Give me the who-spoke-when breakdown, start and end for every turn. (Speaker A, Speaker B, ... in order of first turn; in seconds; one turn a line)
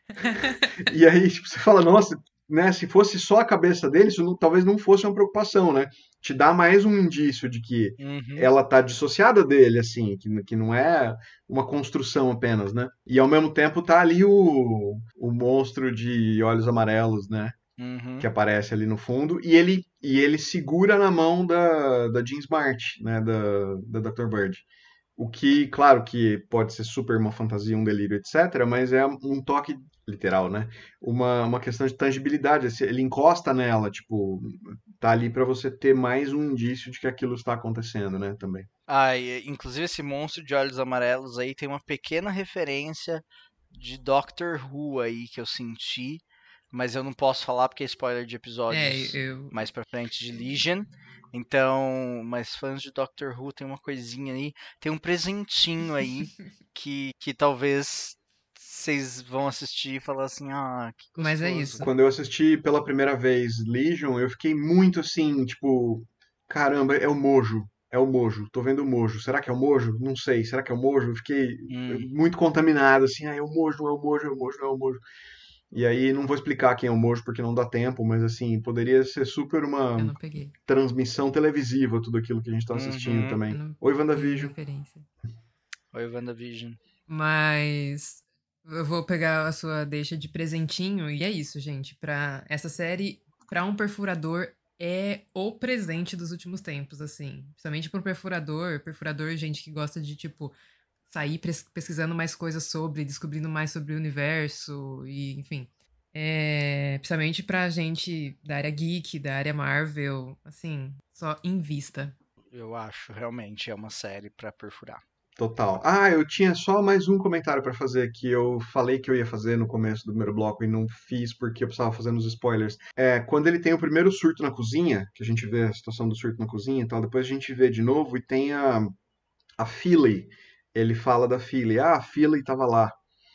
Speaker A: 0.2-17.6
Speaker B: 0.3-0.5
Speaker C: 8.0-8.5
Speaker C: 17.8-18.3
Speaker A: 18.2-24.6
Speaker A: 25.2-38.7
Speaker C: 38.9-61.9
Speaker B: 48.7-49.6
Speaker B: 61.2-61.9
Speaker A: 61.8-75.0
Speaker C: 71.7-72.1
Speaker A: 75.7-84.5
Speaker B: 80.0-80.5
Speaker C: 82.7-83.4
Speaker B: 83.5-85.1
Speaker C: 85.9-86.8
Speaker B: 87.1-100.5
Speaker B: 101.1-112.1
Speaker C: 112.5-115.0
Speaker A: 115.4-128.9
Speaker A: 129.6-133.0